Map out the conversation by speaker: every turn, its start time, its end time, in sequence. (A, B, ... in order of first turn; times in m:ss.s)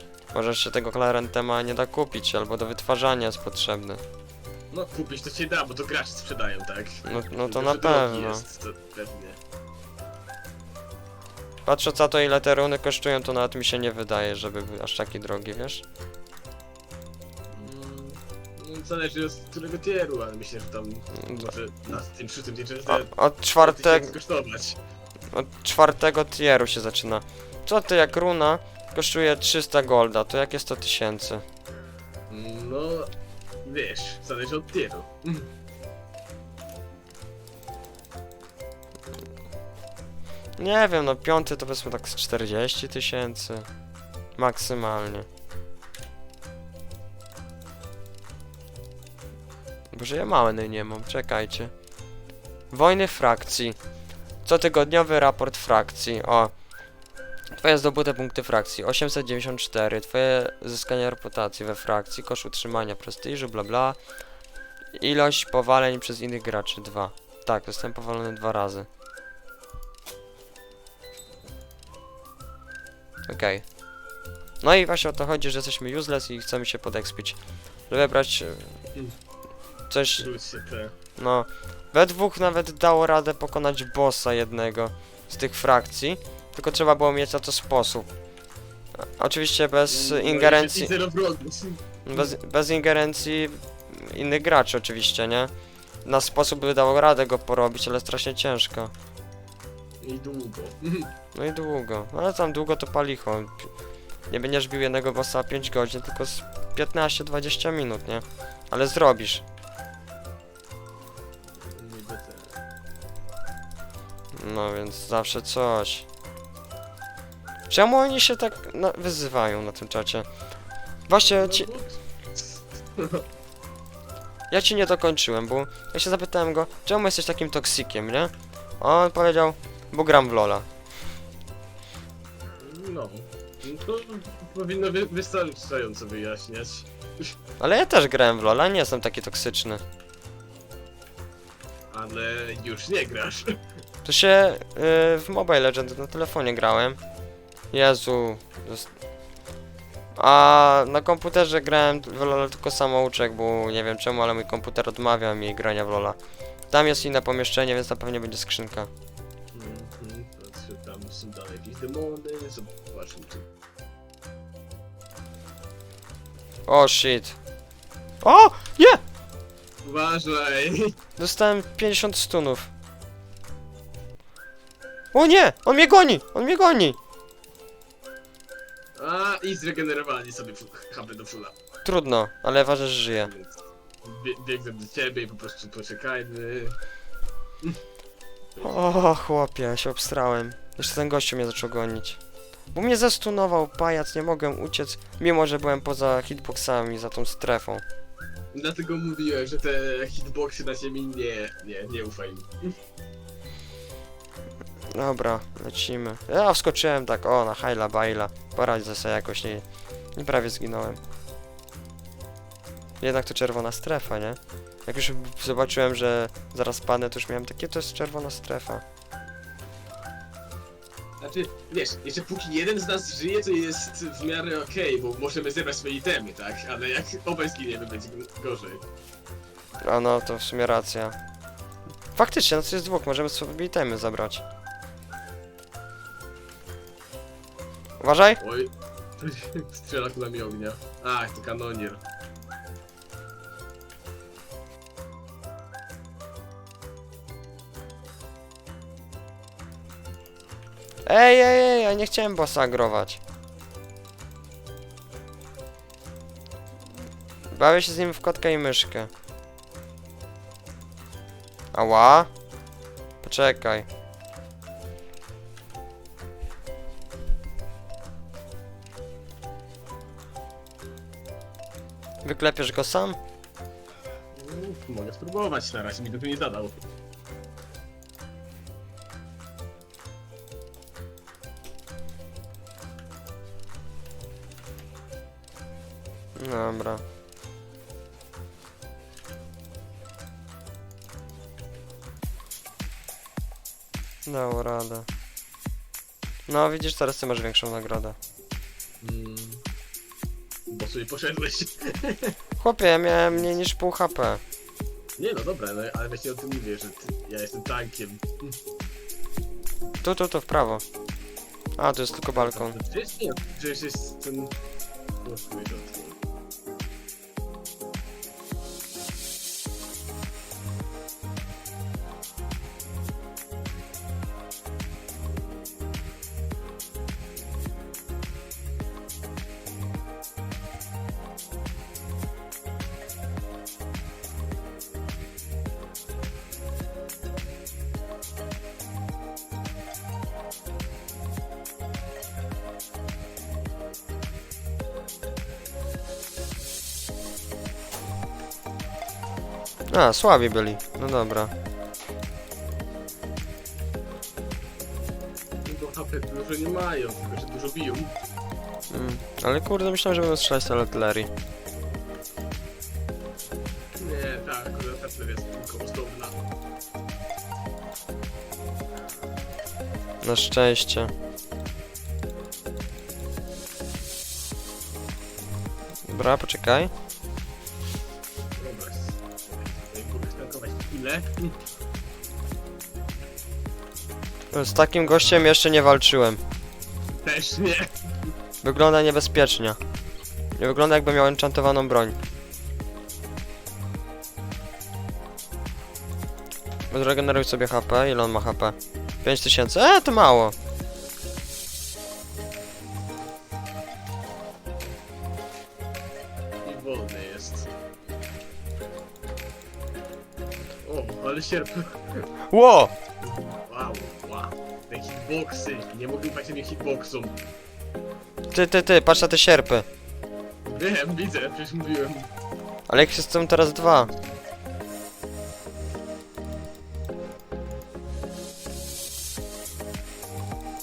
0:00.3-0:04.0 A
0:04.7-0:09.4 B
0:07.0-0:08.4 A
0:11.6-0:15.8 A
0:17.5-0:24.8 B
0:22.9-0:24.1 A
0:25.3-0:31.4 A
0:32.3-0:33.1 B
0:33.6-0:35.5 B
0:40.6-0:43.7 A
0:44.4-0:45.3 A
0:49.9-0:51.7 A
0:52.7-0:53.8 A
0:54.4-0:56.5 A
0:57.5-1:04.0 A
1:04.9-1:08.9 A
1:13.2-1:13.7 A
1:14.6-1:18.8 A
1:19.9-1:20.3 A
1:20.2-1:20.9 B
1:21.2-1:28.1 A
1:29.0-1:30.9 A
1:29.9-1:32.4 B
1:32.0-1:35.5 A
1:36.0-1:38.9 A
1:40.0-1:41.1 B
1:41.3-1:43.7 A
1:44.3-1:49.4 A
1:51.5-1:52.6 B
1:54.3-1:56.0 A
1:57.7-2:00.3 A
2:01.1-2:01.7 A
2:01.2-2:03.2 B
2:04.5-2:10.7 A
2:12.6-2:17.3 B
2:17.6-2:19.8 A
2:21.9-2:23.8 B
2:24.0-2:27.0 A
2:27.7-2:28.9 A
2:30.2-2:36.2 A
2:36.7-2:38.9 A
2:39.5-2:43.5 B
2:46.7-2:47.4 A
2:48.2-2:49.0 A
2:49.8-2:51.0 B
2:51.2-2:52.7 A
2:55.1-2:57.0 A
2:59.0-3:01.5 B
3:01.8-3:03.3 A
3:03.2-3:06.8 B
3:08.5-3:08.8 B
3:08.6-3:12.2 A
3:12.7-3:17.8 A
3:18.5-3:22.7 B
3:24.9-3:31.0 A
3:33.0-3:38.8 A
3:41.2-3:48.8 B
3:49.8-3:51.2 A
3:52.1-3:54.4 A
3:58.0-3:58.4 A
3:58.4-4:02.0 B
4:11.0-4:13.2 A
4:17.5-4:19.1 A
4:21.7-4:22.3 A
4:23.2-4:23.9 A
4:32.2-4:33.2 A
4:34.3-4:36.8 B
4:46.4-4:47.0 A
4:54.2-4:55.1 A
4:56.5-4:58.2 A
4:59.0-4:59.6 B
5:00.7-5:02.4 B
5:02.6-5:04.4 A
5:05.2-5:08.5 B
5:10.0-5:10.8 A
5:11.8-5:12.8 A
5:12.4-5:14.5 B
5:15.2-5:16.2 B
5:49.9-5:51.5 A
5:55.6-5:58.1 B
5:58.9-6:01.3 A
6:04.0-6:06.4 B
6:10.2-6:11.1 A
6:16.1-6:16.9 A
6:18.6-6:21.6 B
6:24.5-6:26.4 A
6:27.1-6:28.3 B
6:28.6-6:29.8 A
6:30.6-6:32.2 A
6:36.9-6:40.5 A
6:46.6-6:47.7 B
6:50.8-6:52.3 B
6:52.5-6:52.9 A
6:53.2-6:57.4 B
6:58.5-6:59.8 A
7:00.6-7:02.3 B
7:02.9-7:04.1 A
7:04.0-7:04.3 B